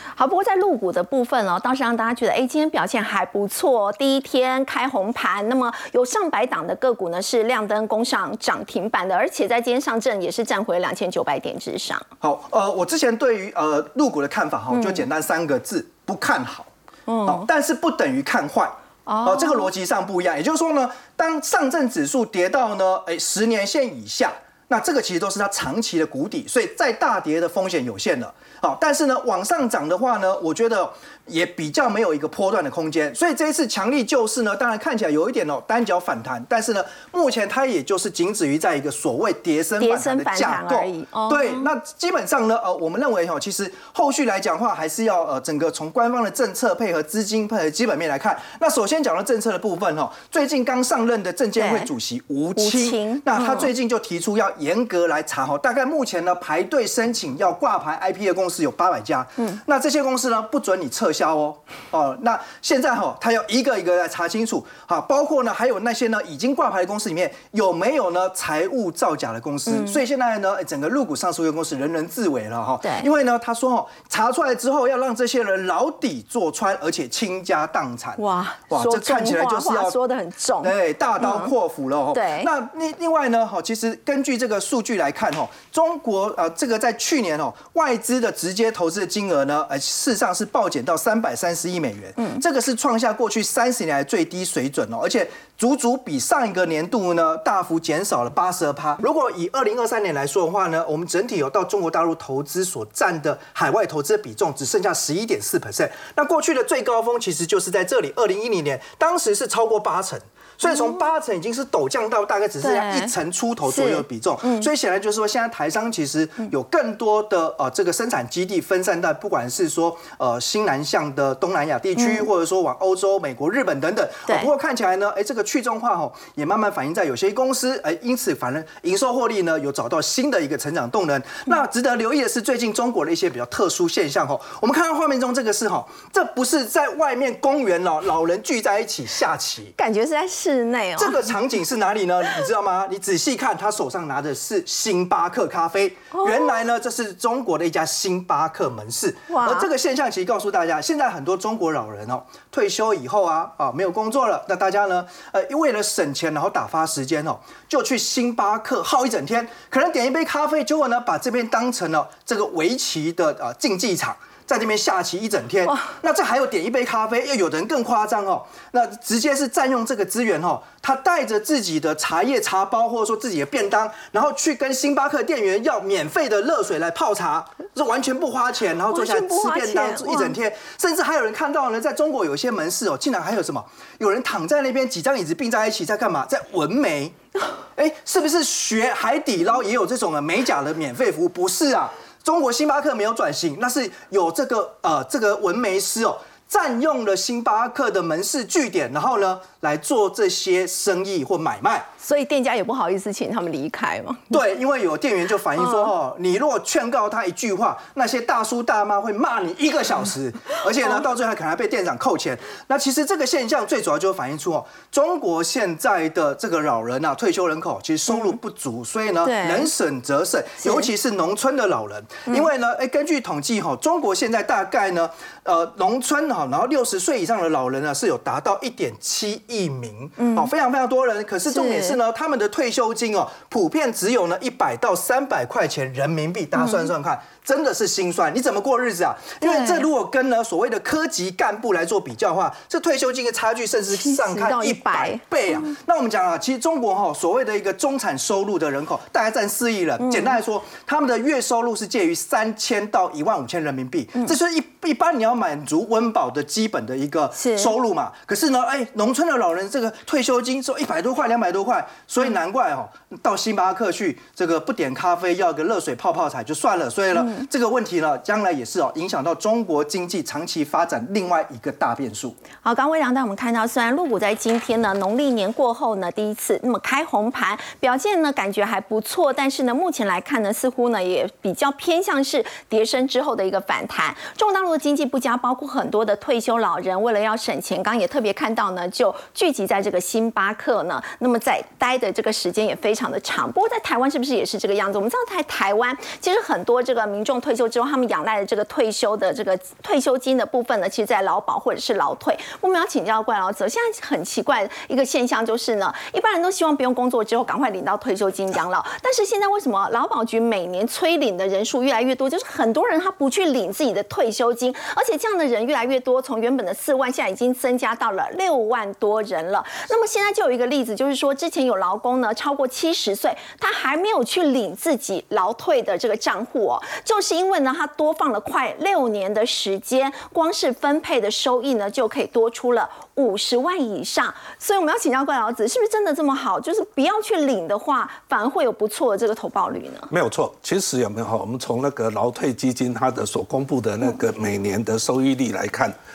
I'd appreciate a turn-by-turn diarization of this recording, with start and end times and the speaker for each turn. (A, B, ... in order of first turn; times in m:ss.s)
0:00.2-0:12.1 A
0:12.2-0:16.7 B
0:14.7-0:15.1 A
0:17.1-0:17.4 A
0:17.2-1:20.0 B
0:19.1-0:19.7 A
0:39.8-0:41.7 A
0:51.6-0:51.9 A
0:52.6-0:53.7 A
1:09.7-1:10.0 A
1:12.8-1:13.1 A
1:18.2-1:21.5 A
1:20.6-2:19.7 B
1:22.1-1:22.5 A
1:52.6-1:53.1 A
1:53.6-1:54.7 A
2:02.0-2:02.2 A
2:19.8-2:21.3 A
2:21.0-3:07.2 B
2:26.1-2:26.6 A
2:29.3-2:29.7 A
2:45.6-2:45.9 A
2:58.9-3:00.4 A
3:07.7-3:21.9 B
3:22.0-3:24.4 A
3:24.3-4:32.4 B
3:39.2-3:39.7 A
3:40.6-3:40.9 A
3:50.2-3:50.5 A
3:51.5-3:52.0 A
3:56.6-3:56.9 A
3:59.4-3:59.9 A
4:03.9-4:05.2 A
4:10.0-4:10.3 A
4:17.3-4:17.7 A
4:27.2-4:27.5 A
4:32.6-5:40.1 A
5:40.1-5:45.9 C